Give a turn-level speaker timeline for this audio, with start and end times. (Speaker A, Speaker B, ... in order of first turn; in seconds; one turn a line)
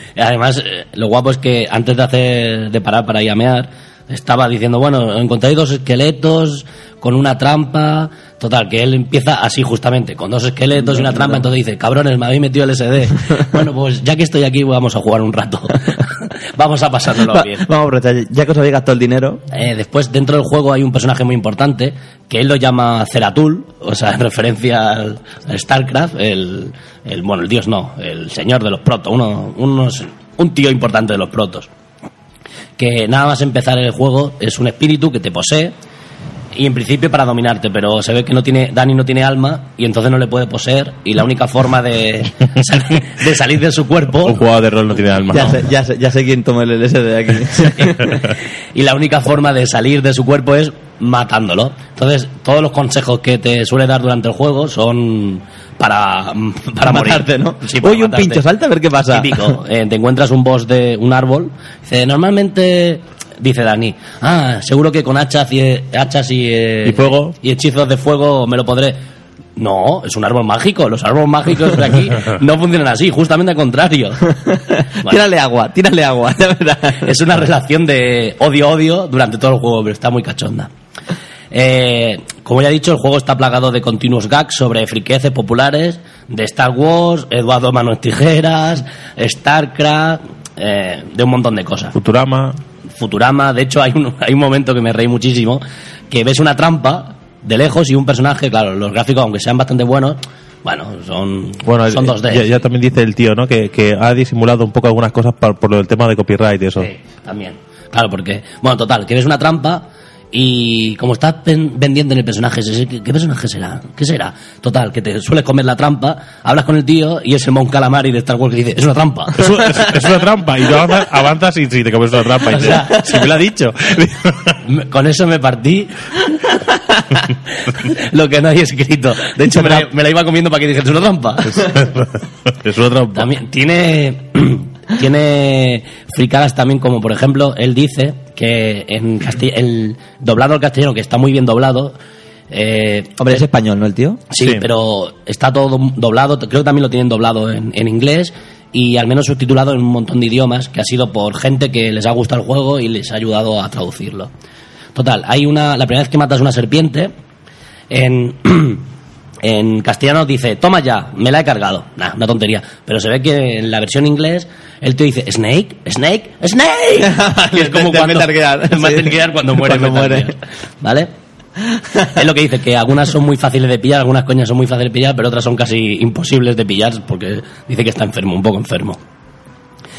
Speaker A: 0.1-17.6
Speaker B: 10.8-11.4
Speaker B: 17.2-19.4
Speaker A: 19.5-31.7
Speaker A: 32.8-35.7
Speaker A: 36.5-44.4
Speaker C: 44.2-45.6
Speaker B: 45.3-48.2
Speaker A: 47.9-48.2
Speaker A: 48.7-58.4
Speaker B: 56.9-59.6
Speaker A: 59.1-69.0
Speaker C: 66.8-67.4
Speaker A: 69.6-75.2
Speaker B: 74.9-77.2
Speaker A: 77.0-80.7
Speaker A: 81.5-91.9
Speaker C: 91.9-92.6
Speaker A: 92.9-102.6
Speaker C: 101.6-106.9
Speaker A: 106.8-119.9
Speaker C: 119.4-124.6
Speaker A: 122.5-123.2
Speaker A: 124.6-126.5
Speaker A: 127.3-131.8
Speaker C: 131.5-133.3
Speaker A: 133.1-141.9
Speaker A: 142.5-143.4
Speaker B: 143.2-144.2
Speaker A: 144.3-154.3
Speaker C: 144.4-144.7
Speaker A: 154.9-157.1
Speaker A: 157.9-158.9
Speaker A: 159.4-171.1
Speaker B: 167.0-170.3
Speaker A: 172.1-179.0